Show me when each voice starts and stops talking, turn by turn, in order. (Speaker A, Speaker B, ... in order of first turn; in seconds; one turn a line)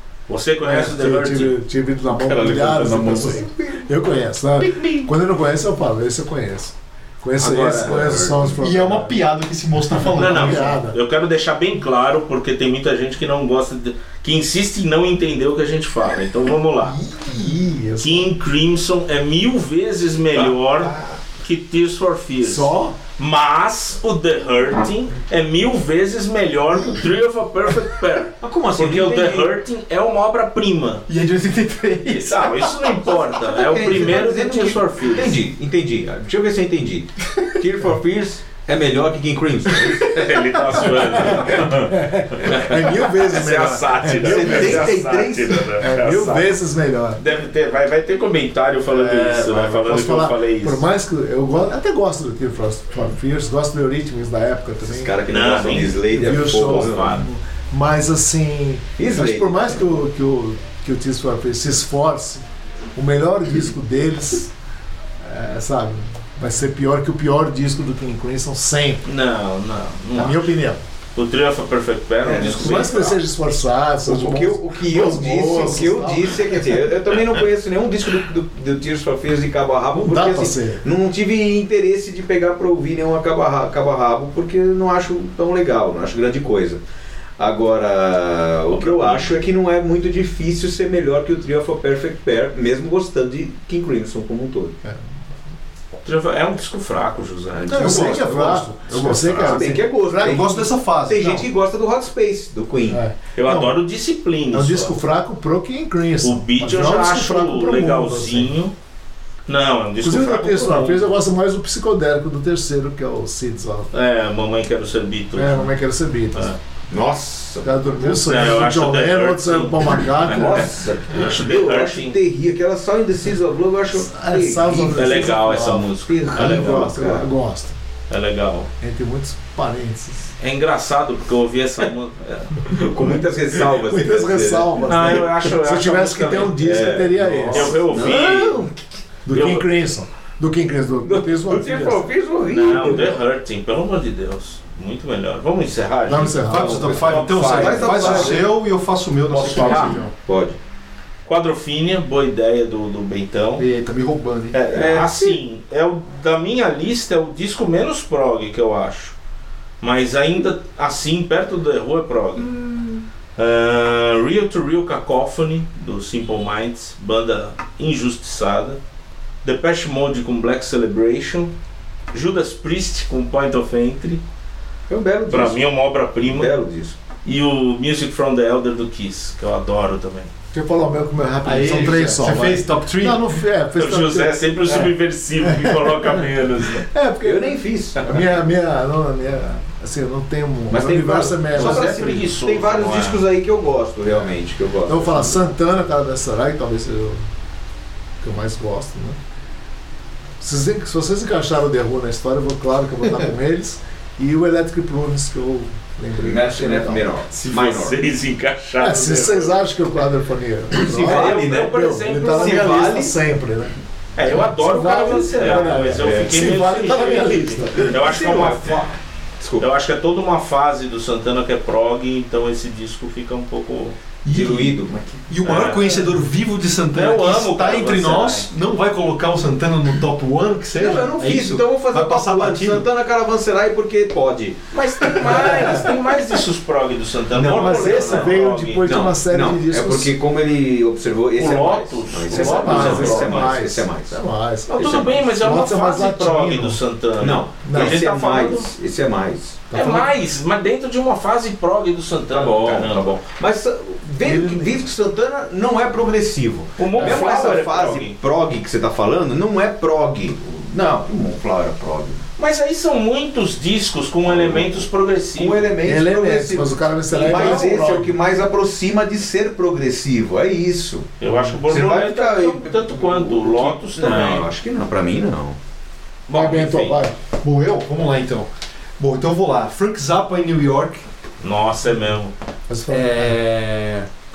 Speaker A: 0.3-1.6
Speaker B: 0.6-9.2
Speaker C: 2.1-3.9
Speaker D: 4.6-5.1
Speaker C: 7.4-8.5
Speaker D: 8.6-10.8
Speaker A: 10.1-17.0
Speaker B: 10.2-11.0
Speaker B: 16.9-18.4
Speaker A: 18.0-31.1
Speaker C: 20.4-21.2
Speaker B: 22.4-23.0
Speaker C: 28.4-29.5
Speaker D: 31.1-33.1
Speaker A: 32.1-35.4
Speaker C: 33.4-40.3
Speaker D: 39.7-41.6
Speaker A: 40.0-41.8
Speaker C: 41.1-42.0
Speaker B: 41.1-45.0
Speaker A: 42.4-46.6
Speaker C: 44.2-45.7
Speaker B: 45.8-47.2
Speaker A: 47.2-50.8
Speaker D: 48.9-49.9
Speaker B: 49.8-55.2
Speaker C: 54.8-57.1
Speaker A: 55.3-57.3
Speaker B: 56.1-62.4
Speaker C: 59.0-59.9
Speaker B: 63.0-64.5
Speaker B: 65.2-69.1
Speaker A: 69.1-70.5
Speaker B: 70.1-70.8
Speaker A: 71.2-73.2
Speaker C: 72.2-72.9
Speaker B: 72.3-76.4
Speaker C: 74.1-86.8
Speaker B: 80.0-80.8
Speaker C: 87.4-94.8
Speaker A: 88.7-89.4
Speaker A: 96.0-98.2
Speaker D: 97.7-101.5
Speaker C: 97.7-98.0
Speaker B: 97.7-100.7
Speaker A: 98.9-99.6
Speaker C: 99.5-103.0
Speaker B: 102.9-103.8
Speaker A: 103.4-104.9
Speaker B: 104.5-108.5
Speaker A: 106.2-108.7
Speaker A: 109.5-111.1
Speaker B: 110.0-113.9
Speaker A: 113.9-115.7
Speaker B: 115.3-116.6
Speaker C: 116.9-117.9
Speaker B: 117.6-120.7
Speaker A: 118.1-120.6
Speaker C: 120.3-127.3
Speaker A: 121.1-122.2
Speaker B: 123.9-127.8
Speaker A: 124.9-127.0
Speaker A: 128.1-128.7
Speaker B: 128.8-130.3
Speaker A: 130.4-132.7
Speaker C: 132.6-134.9
Speaker B: 133.7-137.8
Speaker A: 134.8-138.6
Speaker C: 136.7-138.7
Speaker B: 139.3-142.1
Speaker A: 139.3-139.7
Speaker C: 141.0-143.2
Speaker A: 142.5-148.4
Speaker B: 146.1-147.3
Speaker D: 146.5-150.1
Speaker C: 147.1-148.5
Speaker C: 149.4-150.6
Speaker A: 149.4-150.0
Speaker A: 151.3-153.7
Speaker D: 153.6-154.9
Speaker A: 154.5-159.1
Speaker C: 154.7-155.4
Speaker A: 159.8-162.5
Speaker C: 162.5-163.0
Speaker A: 163.4-168.8
Speaker A: 169.4-171.5
Speaker A: 172.1-174.2
Speaker C: 174.9-175.6
Speaker A: 175.3-176.5
Speaker C: 176.3-177.0
Speaker A: 177.2-180.3
Speaker B: 180.5-184.9
Speaker D: 181.4-183.2
Speaker A: 183.8-186.9
Speaker B: 185.4-186.2
Speaker B: 186.8-192.0
Speaker C: 187.2-188.3
Speaker C: 190.7-195.4
Speaker A: 191.5-193.3
Speaker B: 194.9-197.2
Speaker B: 198.2-199.2
Speaker B: 200.4-207.1
Speaker C: 206.2-208.0
Speaker A: 207.4-209.6
Speaker B: 208.8-213.7
Speaker C: 210.7-213.2
Speaker A: 210.9-213.0
Speaker A: 214.2-218.9
Speaker B: 214.5-218.1
Speaker C: 215.4-216.5
Speaker C: 218.0-218.8
Speaker C: 219.4-219.7
Speaker A: 219.6-224.0
Speaker D: 224.2-232.9
Speaker C: 224.3-225.2
Speaker A: 225.4-226.1
Speaker A: 226.9-228.5
Speaker C: 230.8-234.6
Speaker A: 234.7-238.9
Speaker C: 235.1-235.9
Speaker C: 237.3-238.3
Speaker B: 237.5-240.1
Speaker C: 238.8-244.2
Speaker A: 241.4-243.6
Speaker B: 242.3-246.8
Speaker A: 244.7-248.7
Speaker C: 247.2-249.7
Speaker B: 247.6-248.0
Speaker B: 249.7-250.1
Speaker A: 249.7-253.2
Speaker C: 252.3-262.2
Speaker B: 254.2-254.8
Speaker A: 256.8-258.1
Speaker B: 257.0-257.3
Speaker A: 262.4-265.7
Speaker C: 264.2-271.1
Speaker B: 265.8-268.1
Speaker A: 267.1-267.7
Speaker A: 271.2-274.5
Speaker C: 271.7-275.6
Speaker A: 276.3-277.0
Speaker B: 276.3-277.1
Speaker D: 277.4-281.0
Speaker A: 281.4-282.3
Speaker B: 282.7-283.4
Speaker D: 282.9-284.1